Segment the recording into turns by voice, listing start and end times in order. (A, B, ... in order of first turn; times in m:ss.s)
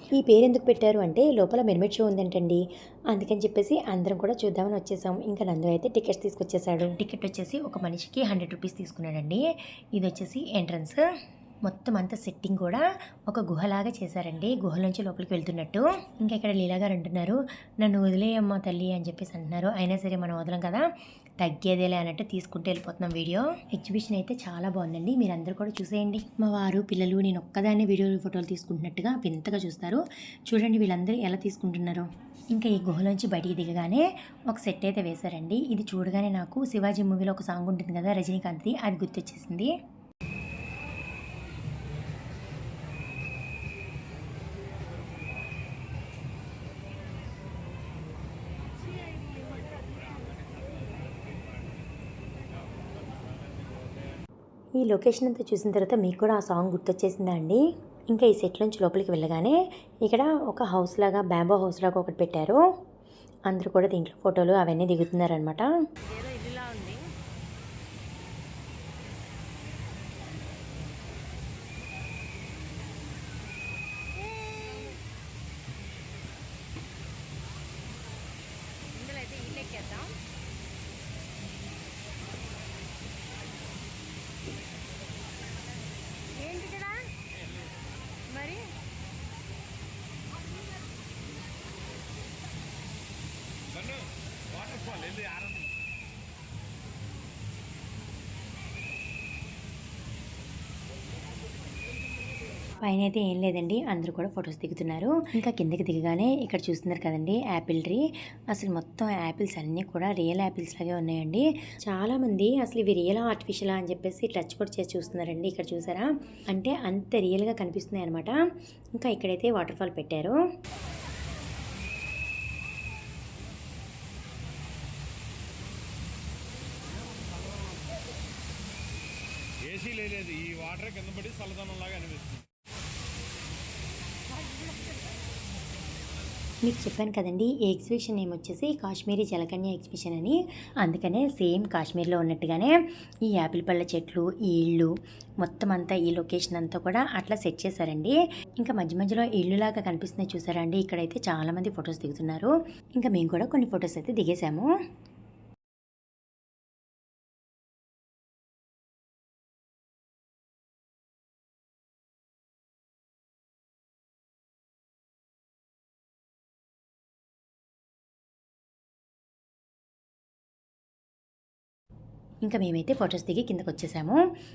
0:00.1-0:09.4 A
0:10.0-0:11.0 A
0:11.7-0:20.8 A
0:21.4-0:39.7 A
0:49.4-0:50.3 B
0:54.8-1:02.6 A
1:03.5-1:05.7 A
1:06.1-1:07.0 C
1:14.2-1:15.0 C
1:18.9-1:20.2 C
1:26.4-1:27.1 C
1:28.3-1:28.7 C
1:33.8-1:34.1 B
1:34.6-1:35.7 B
1:42.8-1:58.3 A
1:59.0-2:00.4 A
2:09.6-2:12.4 B
2:16.6-2:22.7 A
2:23.3-2:24.9 A
2:25.4-2:34.7 A
2:52.4-2:54.2 A